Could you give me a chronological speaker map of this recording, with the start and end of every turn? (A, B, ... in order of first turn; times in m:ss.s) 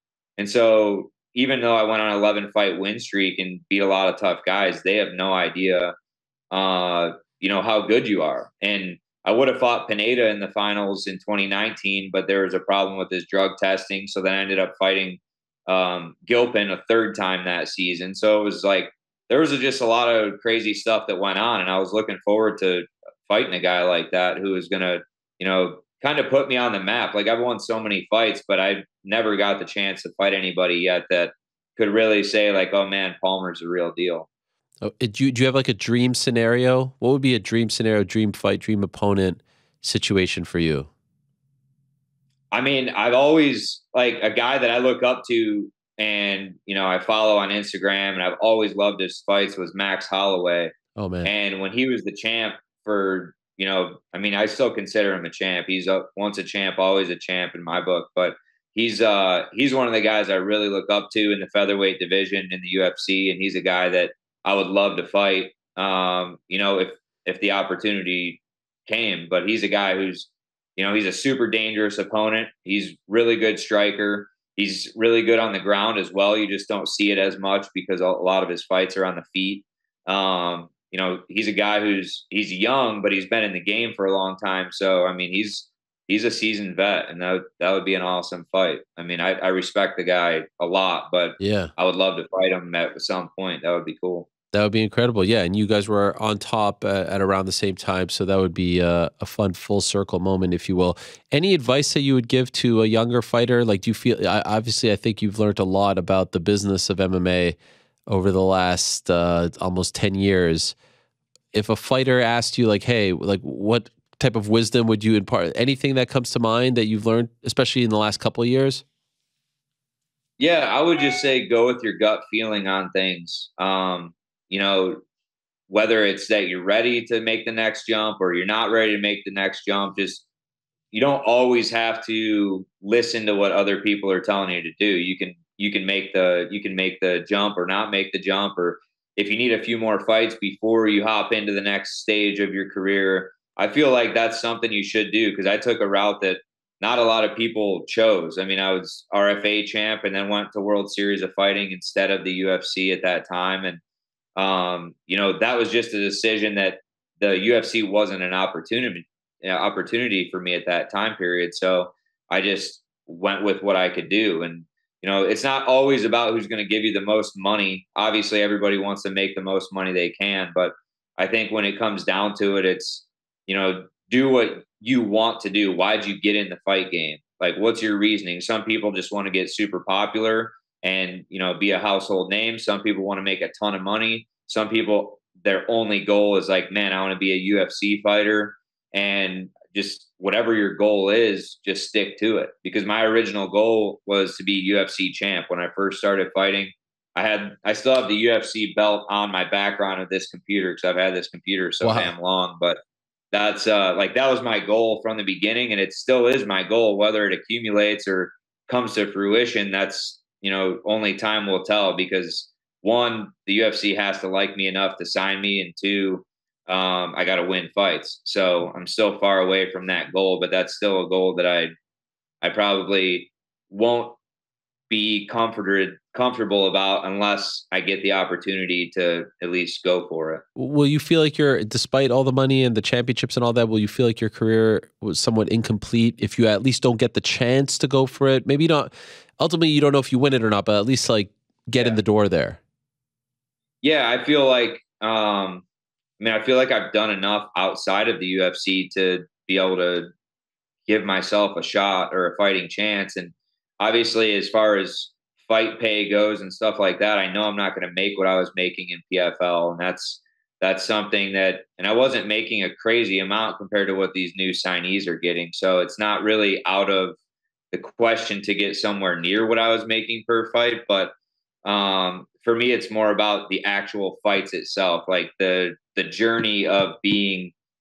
0:00.4-0:05.9 A
0:06.5-0:34.3 A
0:34.8-0:40.9 B
0:42.5-0:50.7 A
0:51.0-0:51.3 B
0:51.2-1:34.3 A
1:31.4-1:31.7 B
1:34.5-1:47.6 B
1:48.1-1:50.7 B
1:51.5-1:58.8 B
2:00.4-2:05.0 A
2:05.7-2:10.2 A
2:10.9-2:33.8 A
2:34.4-3:22.8 A
3:21.8-3:22.1 B
3:23.3-3:41.7 A
3:42.4-3:44.2 A
3:44.9-3:50.4 A
3:50.6-4:02.6 B
4:03.8-4:05.6 A
4:06.2-4:10.1 A
4:10.9-4:27.2 A
4:27.7-4:37.5 A